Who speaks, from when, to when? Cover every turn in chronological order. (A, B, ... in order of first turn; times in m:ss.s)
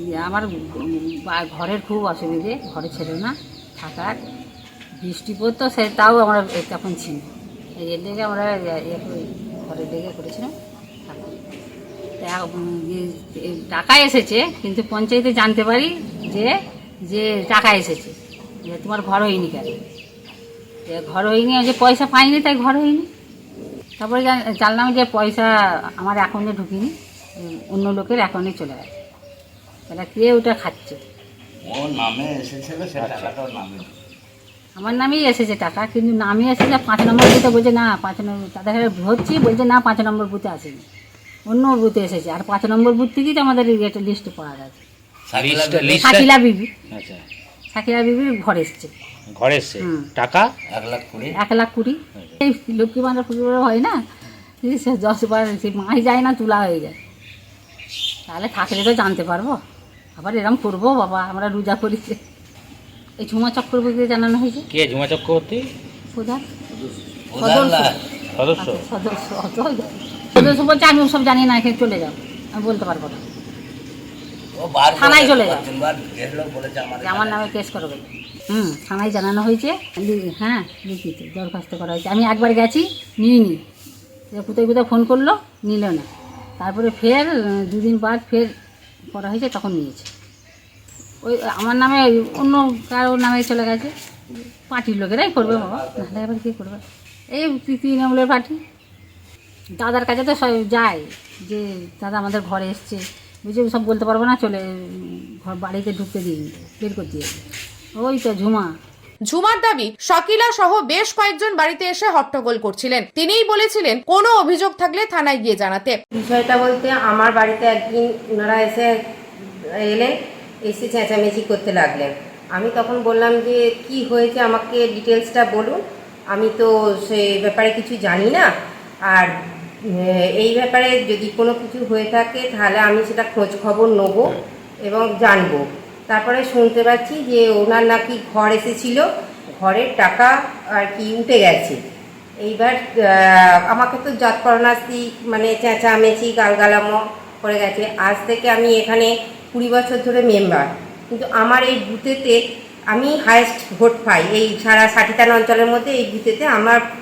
0:00.1-0:04.2 A
0:05.0-0:07.3 A
0:07.8-0:10.5 A
0:11.1-0:11.3 A
0:12.2-0:16.5 A
0:17.1-0:18.1 A
0:18.7-0:19.8 A
0:20.9-0:23.1 A
0:24.0-0:28.9 A
0:29.9-0:31.0 A
0:31.6-0:33.9 B
0:34.8-0:40.8 A
0:41.5-0:44.8 A
0:45.3-0:46.1 B
0:45.4-0:46.3 C
0:46.0-0:46.7 A
0:46.9-0:47.2 C
0:47.7-0:48.9 A
0:49.3-0:50.5 C
0:49.8-0:50.1 A
0:50.7-0:51.4 B
0:51.4-0:54.0 A
0:54.6-0:57.0 A
0:58.3-0:59.6 A
1:00.2-1:02.2 A
1:03.2-1:04.7 A
1:04.7-1:05.7 C
1:06.1-1:06.4 A
1:06.7-1:08.0 B
1:07.4-1:07.9 A
1:08.4-1:08.9 C
1:08.6-1:13.2 A
1:14.5-1:17.5 B
1:14.9-1:15.7 A
1:17.0-1:23.6 A
1:24.3-1:26.1 A
1:26.6-1:28.5 A
1:29.1-1:30.1 A
1:31.2-1:33.9 A
1:34.7-1:36.8 A
1:35.4-1:36.2 B
1:37.3-1:38.6 A
1:39.8-1:47.4 A
1:48.0-1:48.7 A
1:49.3-1:56.0 D
1:56.1-1:58.9 E
2:00.7-2:05.8 E
2:06.3-2:08.5 E
2:10.4-2:21.8 E
2:22.4-2:32.4 E
2:32.9-2:36.8 E